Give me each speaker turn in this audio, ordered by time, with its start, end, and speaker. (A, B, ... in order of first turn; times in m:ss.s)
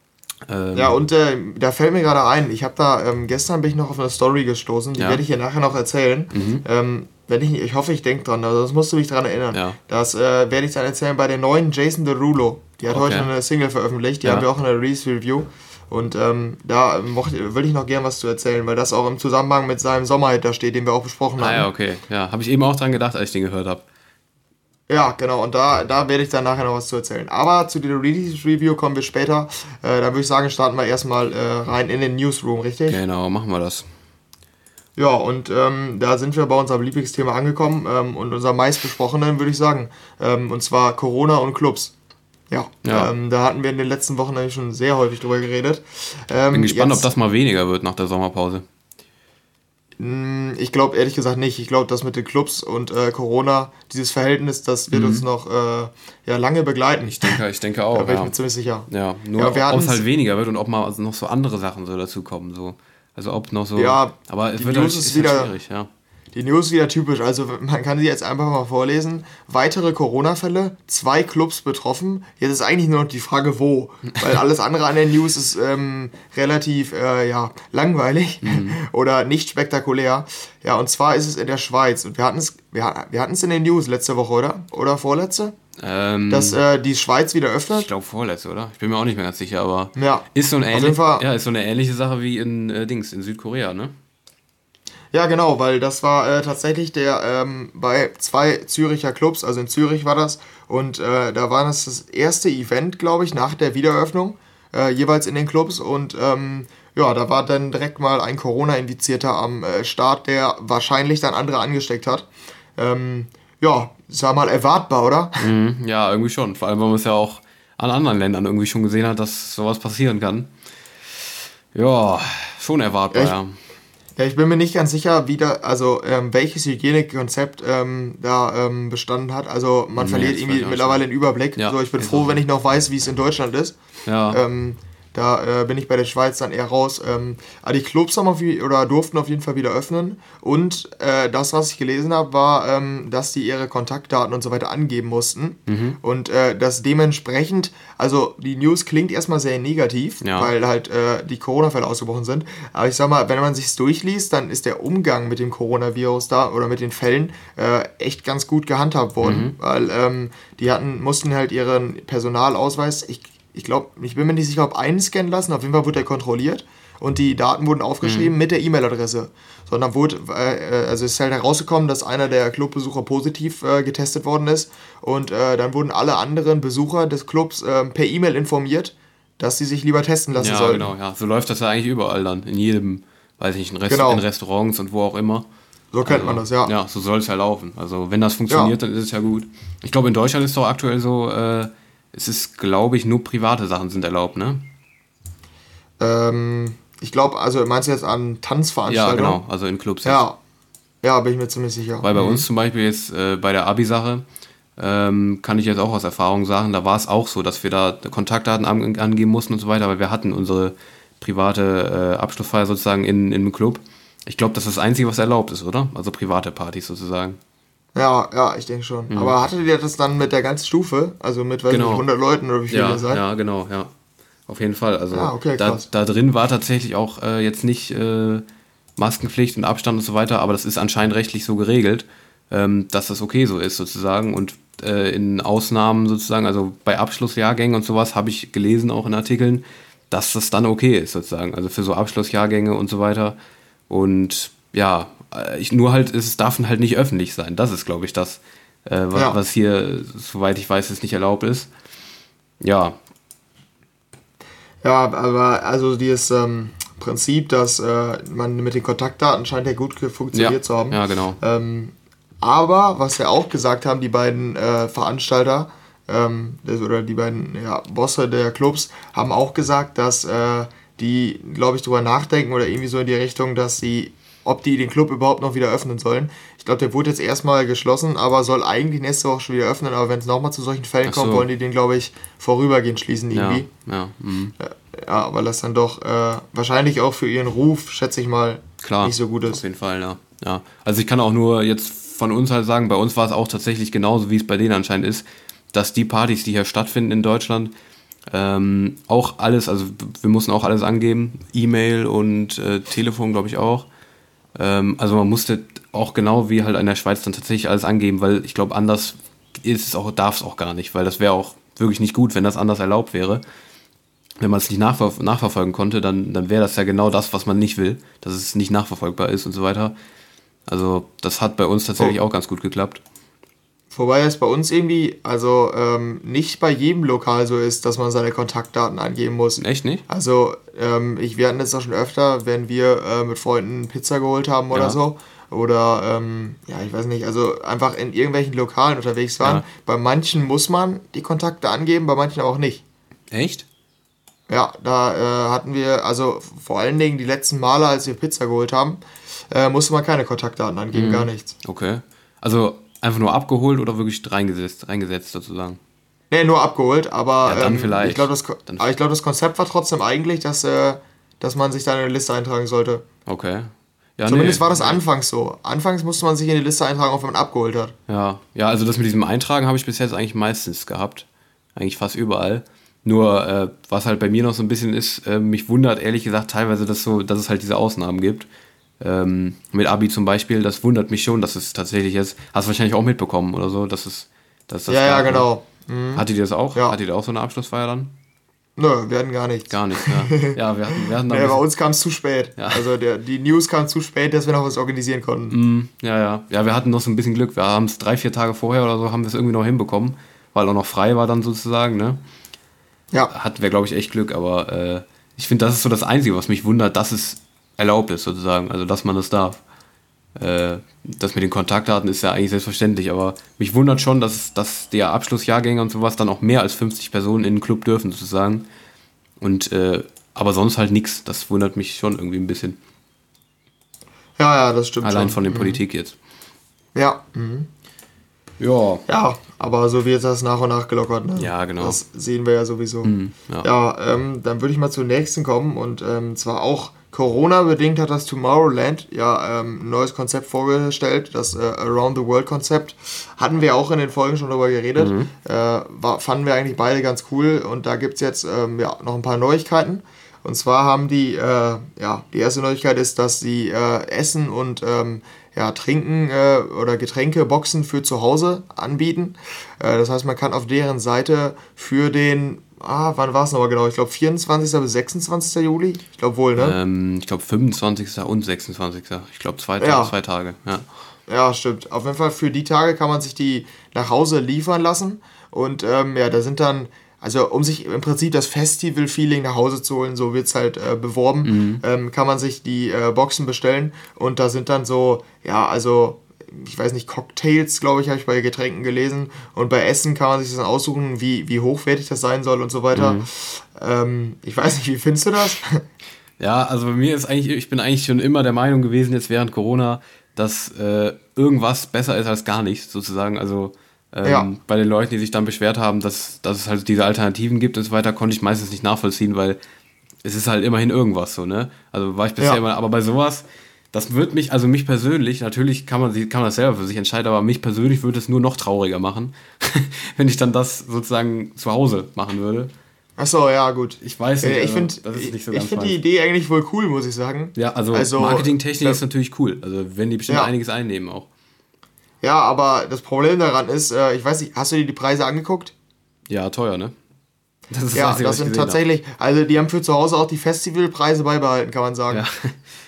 0:00.4-0:01.0 A
0:00.7-0:21.7 B
0:05.0-0:05.2 A
0:06.3-0:06.6 A
0:12.9-0:13.3 A
0:21.4-0:23.8 A
0:24.9-0:33.0 B
0:32.9-0:33.9 A
0:35.0-0:41.9 B
0:42.5-0:47.1 B
0:42.8-0:43.1 A
0:46.5-0:48.6 A
0:50.0-0:57.4 B
0:54.9-0:55.2 A
0:57.2-0:58.3 A
0:57.9-1:00.0 B
0:58.9-1:05.9 A
1:03.8-1:05.5 B
1:06.3-1:25.5 B
1:18.4-1:18.8 A
1:25.8-1:26.6 A
1:26.3-1:27.9 B
1:27.7-1:33.9 A
1:30.0-1:31.2 B
1:35.1-1:55.5 B
1:55.4-2:00.5 A
2:01.7-2:03.6 A
2:04.2-2:13.8 B
2:10.0-2:11.0 A
2:11.6-2:12.4 A
2:14.0-2:14.4 A
2:14.3-3:00.9 B
2:25.7-2:26.0 A
2:30.2-2:30.5 A
2:39.2-2:39.6 A
2:48.0-2:48.3 A
3:00.4-3:05.5 A
3:03.9-3:04.2 B
3:05.9-3:06.7 B
3:06.0-3:14.6 A
3:08.5-3:08.7 B
3:16.0-3:19.4 B
3:18.9-3:20.2 A
3:20.0-3:20.4 B
3:21.0-3:22.4 B
3:22.0-3:24.2 A
3:24.8-3:37.4 A
3:37.9-3:43.2 B
3:41.7-3:42.0 A
3:42.7-3:43.9 A
3:44.5-3:48.4 A
3:45.1-3:45.8 B
3:49.0-4:03.4 A
4:03.9-4:11.7 A
4:12.6-4:13.0 A
4:14.8-4:43.7 B
4:20.3-4:21.4 A
4:41.0-4:41.5 A
4:43.3-4:44.5 A
4:44.6-4:49.6 B
4:48.8-4:57.7 A
4:58.3-5:03.9 A
5:04.5-5:13.4 A
5:14.4-5:19.9 A
5:20.7-5:23.0 A
5:23.9-5:42.8 B
5:29.6-5:30.0 A
5:34.7-5:35.0 A
5:43.3-5:43.6 A
5:44.5-5:51.5 B
5:50.9-5:55.8 A
5:56.3-6:03.0 B
5:57.4-5:58.9 A
6:03.2-6:05.0 A
6:04.2-6:07.9 B
6:08.1-6:18.5 A
6:19.0-6:25.5 A
6:24.9-6:27.0 B
6:26.1-6:28.1 A
6:28.8-6:35.6 B
6:29.7-6:31.6 A
6:32.6-6:32.8 A
6:35.5-6:42.2 A
6:43.3-6:49.6 A
6:50.4-6:58.7 A
6:59.4-7:02.8 A
7:04.4-7:05.8 B
7:05.0-7:06.2 A
7:06.9-7:07.7 B
7:08.6-7:09.0 A
7:09.1-7:46.8 B
7:11.4-7:12.0 A
7:13.0-7:13.7 A
7:25.0-7:25.3 A
7:46.6-7:50.8 A
7:49.8-7:50.1 B
7:51.3-8:15.8 B
8:01.4-8:01.8 A
8:12.9-8:13.3 A
8:16.4-8:29.6 A
8:24.2-8:24.5 B
8:30.2-8:42.7 A
8:43.2-8:49.0 B
8:44.0-8:46.0 A
8:47.5-8:51.3 A
8:52.2-8:55.7 B
8:56.3-8:57.0 A
8:57.7-8:58.8 A
8:57.9-9:02.2 B
9:02.1-9:02.6 A